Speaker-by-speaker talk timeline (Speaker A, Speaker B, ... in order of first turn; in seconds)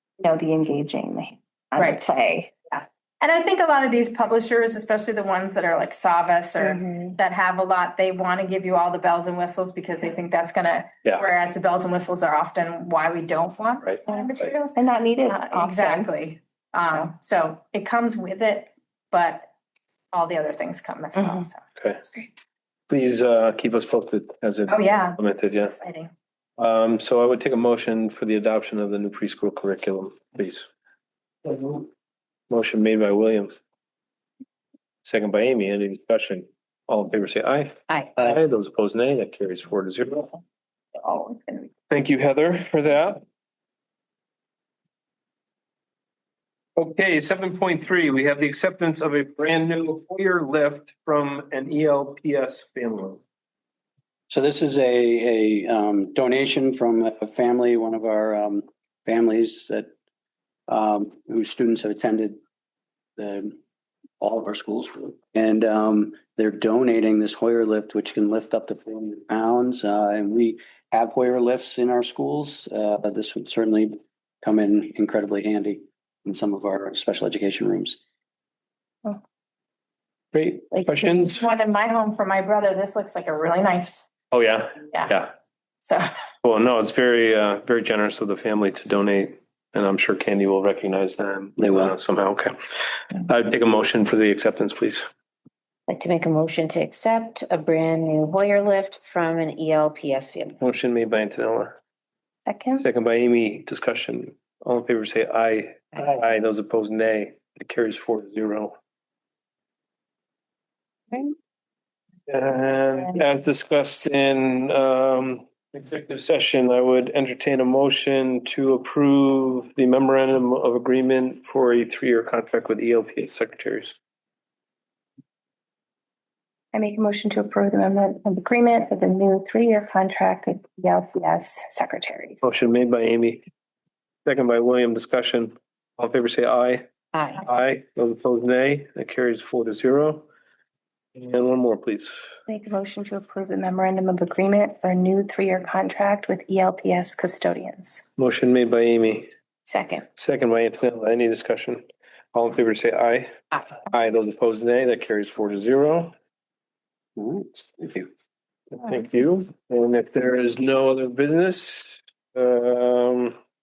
Speaker A: 0.2-2.5, 14.1-16.1, 21.2-21.4, 41.0-41.7, 102.5-102.9, 126.7-132.5, 142.5-148.1
Speaker B: 1.8-2.0, 2.7-19.5, 20.1-22.3, 24.7-26.1, 80.8-84.1
Speaker C: 22.9-25.8, 26.6-30.7, 31.4-31.9, 32.5-33.6, 35.0-40.3, 41.9-43.2, 46.8-53.2, 80.3-81.4, 84.3-85.3, 86.4-92.5, 93.1-95.1, 100.6-101.7, 102.8-108.8, 112.3-124.0, 132.4-133.4, 134.2-136.8, 137.4-140.3, 141.2-142.4, 148.2-149.3, 150.2-156.1, 158.7-163.3
Speaker D: 54.3-59.9, 60.7-62.4, 63.2-63.6, 64.2-78.0, 91.6-91.9, 157.2-158.0
Speaker E: 95.9-100.5, 149.7-150.1